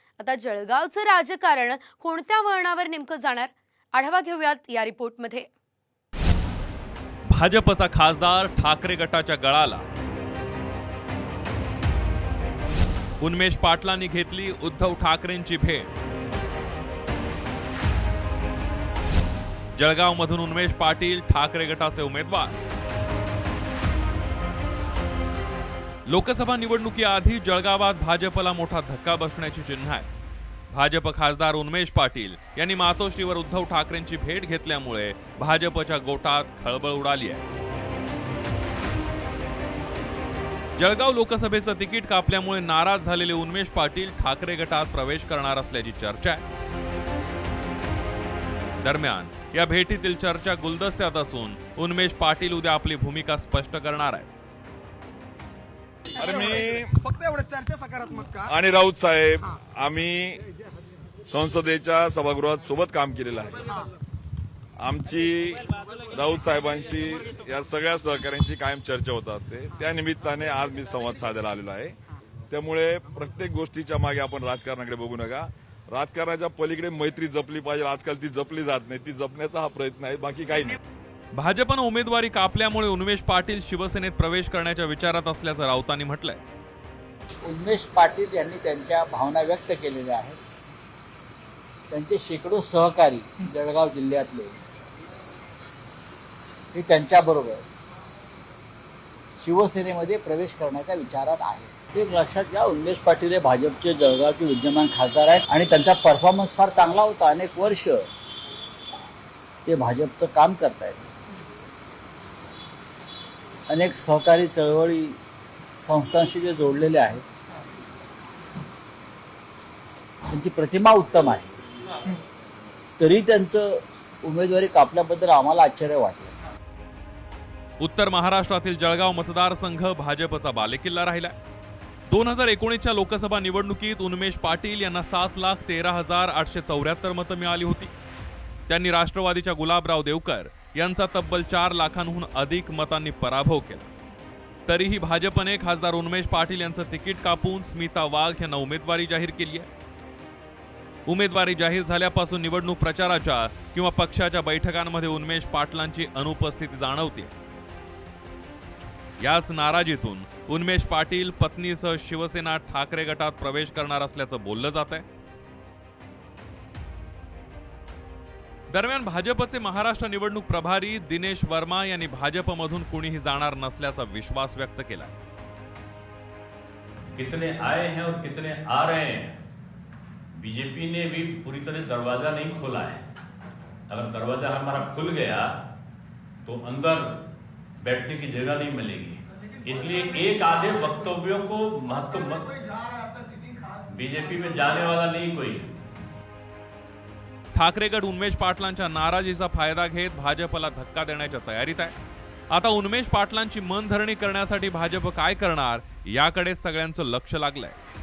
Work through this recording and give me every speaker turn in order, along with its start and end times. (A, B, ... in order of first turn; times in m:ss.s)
0:00.2-0:05.5 A
0:07.3-0:09.8 B
0:13.2-0:15.9 B
0:19.8-0:22.5 B
0:26.1-0:30.1 B
0:30.7-0:37.4 B
0:40.8-0:46.4 B
0:48.8-0:54.3 B
0:56.1-0:57.0 C
0:56.2-0:58.4 D
0:58.5-1:00.4 C
1:01.3-1:03.6 C
1:04.8-1:12.0 C
1:12.5-1:20.8 C
1:21.4-1:26.4 B
1:27.4-1:30.4 E
1:31.9-1:34.6 E
1:36.7-1:37.6 E
1:39.4-1:48.1 E
1:49.6-1:51.0 E
1:53.7-1:55.2 E
1:55.8-1:57.2 E
2:00.3-2:01.5 E
2:03.0-2:06.3 E
2:07.8-2:11.3 B
2:12.1-2:17.9 B
2:18.7-2:23.9 B
2:24.7-2:29.7 B
2:31.1-2:37.3 B
2:39.2-2:45.0 B
2:48.7-2:55.1 B
2:57.2-2:59.3 F
3:00.4-3:03.0 F
3:03.9-3:05.5 F
3:06.5-3:07.2 F
3:07.8-3:12.6 F
3:09.8-3:10.4 D
3:12.7-3:13.7 D
3:13.9-3:15.7 F
3:17.5-3:22.0 B
3:22.5-3:27.8 B